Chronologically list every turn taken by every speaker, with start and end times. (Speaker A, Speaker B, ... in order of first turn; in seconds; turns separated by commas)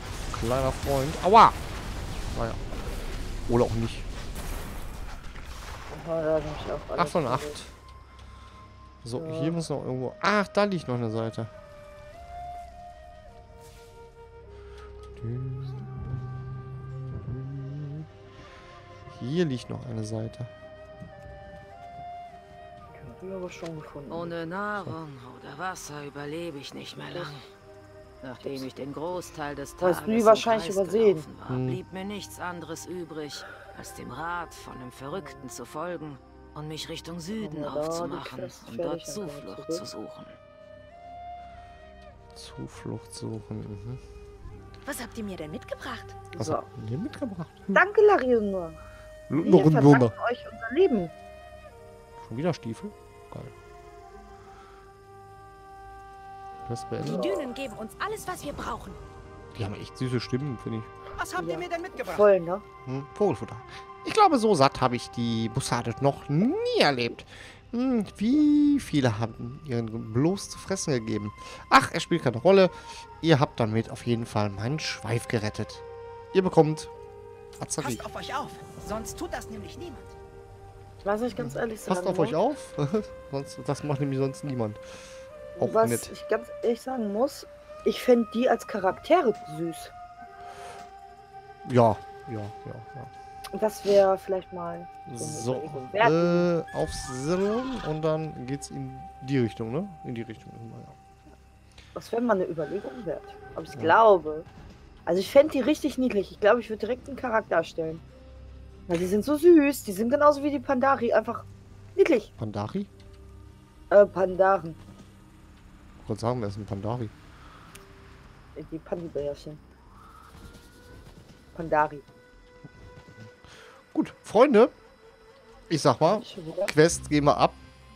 Speaker A: 0.3-1.6, Speaker A: 2.3-2.6, Speaker A: 3.5-4.1, Speaker B: 5.9-7.6, Speaker A: 7.0-7.7, Speaker A: 9.0-11.5, Speaker B: 9.2-9.6, Speaker A: 15.2-18.1, Speaker A: 19.1-20.5, Speaker B: 22.9-24.4, Speaker C: 24.1-27.5, Speaker B: 27.0-27.4, Speaker C: 28.2-40.4, Speaker B: 28.4-28.7, Speaker B: 29.8-31.3, Speaker A: 31.5-31.8, Speaker B: 35.1-35.4, Speaker B: 37.3-39.9, Speaker A: 42.4-44.0, Speaker D: 44.9-46.3, Speaker B: 46.3-46.7, Speaker A: 46.4-47.8, Speaker B: 47.7-48.8, Speaker A: 49.3-50.1, Speaker B: 49.4-51.1, Speaker A: 52.2-53.5, Speaker A: 56.7-57.2, Speaker B: 57.0-57.5, Speaker D: 57.0-59.0, Speaker A: 59.5-60.9, Speaker E: 61.2-62.3, Speaker B: 61.4-62.6, Speaker A: 62.9-76.9, Speaker A: 77.6-78.1, Speaker E: 77.8-80.1, Speaker B: 81.0-82.4, Speaker A: 81.4-85.0, Speaker B: 85.6-89.9, Speaker A: 85.6-86.1, Speaker A: 91.6-93.1, Speaker B: 93.5-96.5, Speaker A: 95.1-101.0, Speaker B: 102.0-104.5, Speaker B: 105.1-108.0, Speaker B: 108.9-112.3, Speaker A: 112.4-112.9, Speaker B: 113.9-114.8, Speaker A: 116.0-117.1, Speaker B: 118.6-119.6, Speaker B: 121.5-122.0, Speaker A: 123.9-124.7, Speaker A: 125.7-127.6, Speaker B: 126.0-126.7